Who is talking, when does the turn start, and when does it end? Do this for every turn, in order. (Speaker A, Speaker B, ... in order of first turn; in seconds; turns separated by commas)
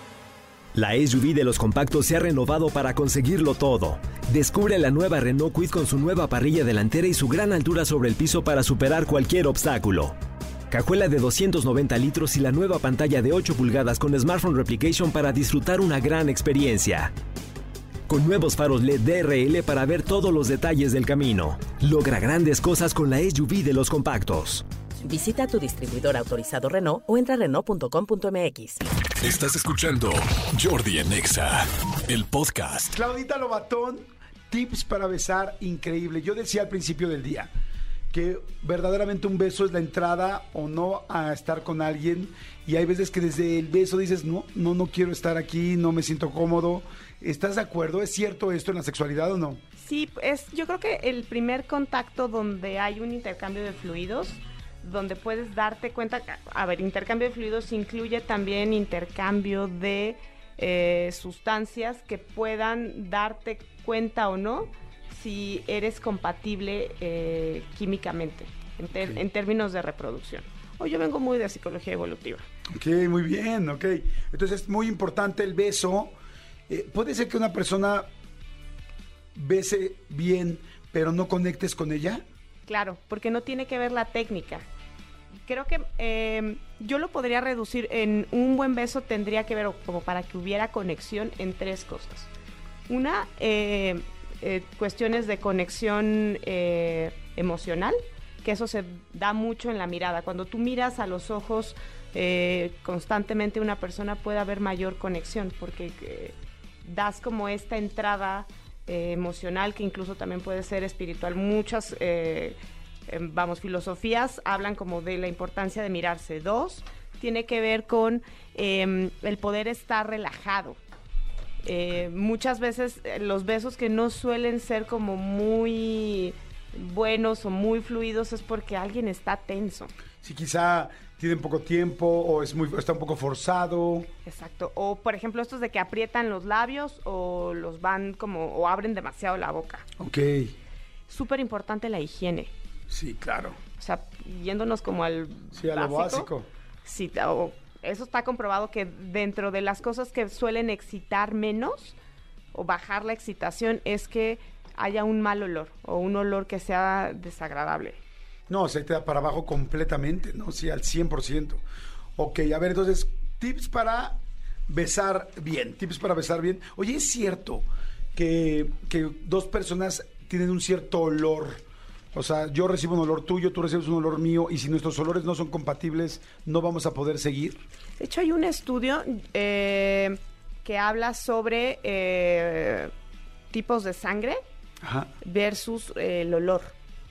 Speaker A: 0.8-10.1, Speaker A: 10.7-17.1, Speaker A: 18.1-24.4, Speaker B: 25.0-28.8, Speaker C: 29.2-32.9, Speaker D: 32.9-37.5, Speaker D: 38.1-49.6, Speaker E: 49.8-72.4, Speaker D: 69.0-69.2, Speaker D: 72.7-76.2, Speaker D: 76.7-78.1, Speaker D: 79.3-82.2, Speaker E: 82.7-84.7, Speaker E: 85.5-92.3, Speaker E: 92.9-112.6, Speaker E: 113.1-120.8, Speaker E: 121.6-129.9, Speaker D: 130.2-134.1, Speaker E: 134.2-139.8, Speaker D: 140.0-140.5, Speaker E: 141.1-142.5, Speaker D: 142.9-143.6, Speaker E: 143.8-146.3, Speaker D: 145.5-146.5, Speaker E: 146.8-151.9, Speaker E: 152.5-158.0, Speaker D: 158.5-161.6, Speaker D: 162.2-171.6, Speaker D: 172.1-177.6, Speaker E: 178.0-182.9, Speaker E: 183.5-184.4, Speaker D: 184.8-185.1, Speaker E: 185.2-186.7